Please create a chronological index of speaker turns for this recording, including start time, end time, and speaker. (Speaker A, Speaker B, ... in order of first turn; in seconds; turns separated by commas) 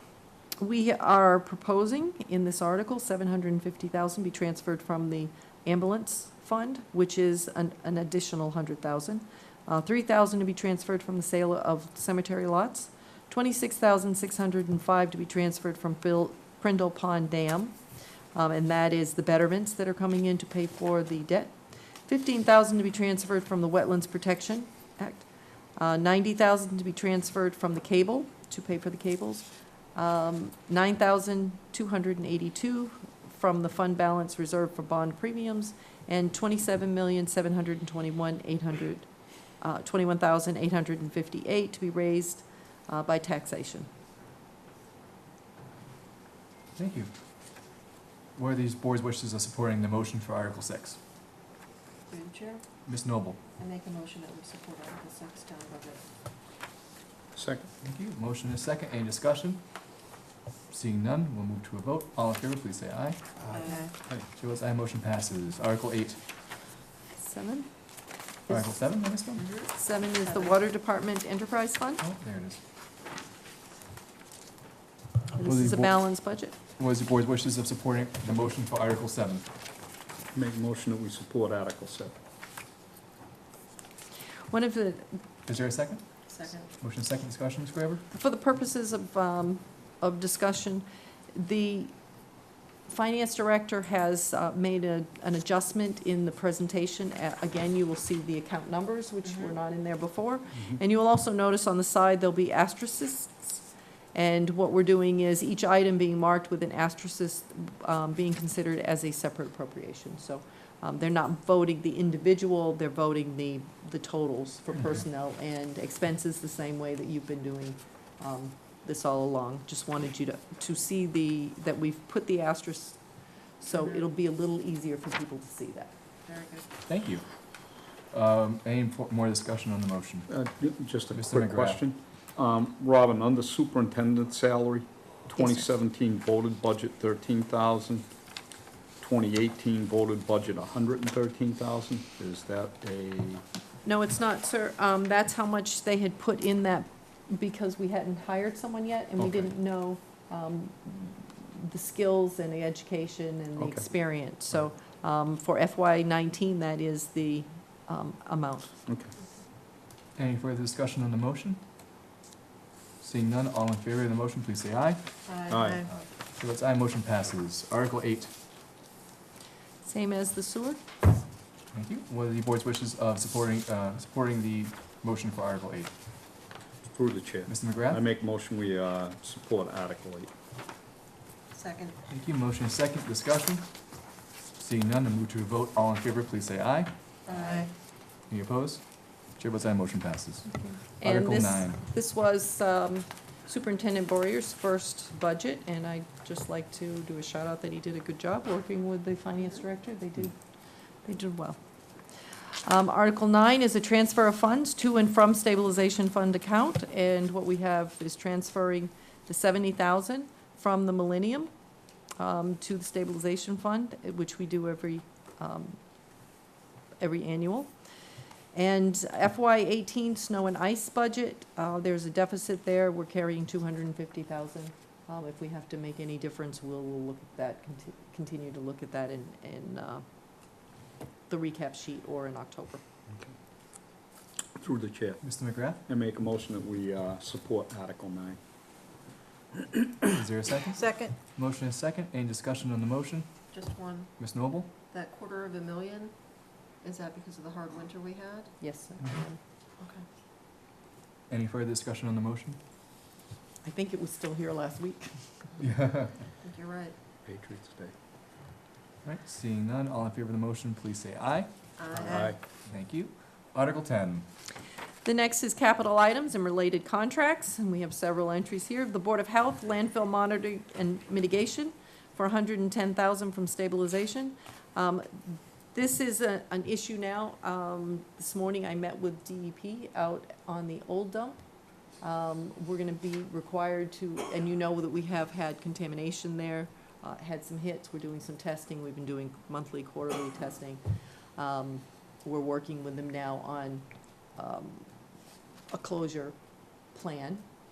Speaker A: 0.6-17.8, Speaker A: 18.4-21.6, Speaker A: 22.1-39.1, Speaker A: 39.6-43.9, Speaker B: 46.8-47.1, Speaker B: 48.3-51.0, Speaker C: 52.1-52.7, Speaker B: 52.9-53.4, Speaker C: 53.5-56.0, Speaker D: 57.3-57.7, Speaker B: 57.8-60.0, Speaker B: 60.7-63.4, Speaker D: 63.4-64.3, Speaker C: 63.5-64.0, Speaker B: 64.2-66.2, Speaker A: 67.2-67.7, Speaker B: 68.5-69.5, Speaker C: 69.4-69.7, Speaker A: 69.7-72.0, Speaker C: 70.2-70.6, Speaker B: 72.0-72.6, Speaker A: 75.3-76.5, Speaker B: 75.4-76.1, Speaker B: 76.7-79.5, Speaker D: 80.3-82.2, Speaker A: 84.5-85.2, Speaker B: 85.5-88.0, Speaker C: 86.3-86.7, Speaker A: 88.1-92.0, Speaker A: 92.8-123.0, Speaker A: 123.6-125.9, Speaker C: 123.7-124.0, Speaker C: 126.2-126.6, Speaker B: 126.8-130.3, Speaker D: 130.3-138.1, Speaker B: 131.1-131.8, Speaker A: 135.4-135.7, Speaker D: 139.0-143.4, Speaker A: 143.8-158.7, Speaker B: 149.2-149.5, Speaker D: 153.6-153.8, Speaker D: 158.9-159.1, Speaker B: 160.2-161.6, Speaker B: 163.0-165.2, Speaker C: 165.2-165.9, Speaker D: 165.5-165.9, Speaker B: 165.9-168.3, Speaker A: 169.8-170.8, Speaker B: 171.7-175.9, Speaker D: 176.9-180.3, Speaker B: 177.5-178.0, Speaker C: 181.5-182.0, Speaker B: 182.1-186.9, Speaker C: 187.2-187.7, Speaker B: 188.2-191.8, Speaker A: 190.5-200.4, Speaker A: 201.0-201.6, Speaker A: 202.7-211.5, Speaker A: 212.2-215.8, Speaker A: 217.0-217.7, Speaker A: 218.5-230.0, Speaker A: 231.3-232.8, Speaker D: 234.6-235.2, Speaker B: 235.2-235.8, Speaker D: 235.9-238.4, Speaker B: 240.1-243.5, Speaker C: 240.8-241.2, Speaker C: 243.5-244.3, Speaker B: 244.2-244.7, Speaker C: 244.9-246.2, Speaker C: 246.7-248.5, Speaker A: 248.6-249.4, Speaker C: 249.8-250.1, Speaker B: 251.3-252.6, Speaker A: 253.6-255.5, Speaker B: 255.6-256.2, Speaker C: 256.4-256.9, Speaker D: 257.2-257.9, Speaker B: 259.0-261.8, Speaker C: 261.8-262.4, Speaker D: 261.9-262.4, Speaker B: 262.6-264.3, Speaker A: 265.0-281.4, Speaker A: 282.0-290.8, Speaker A: 291.4-294.9, Speaker A: 295.7-296.4, Speaker A: 296.9-297.5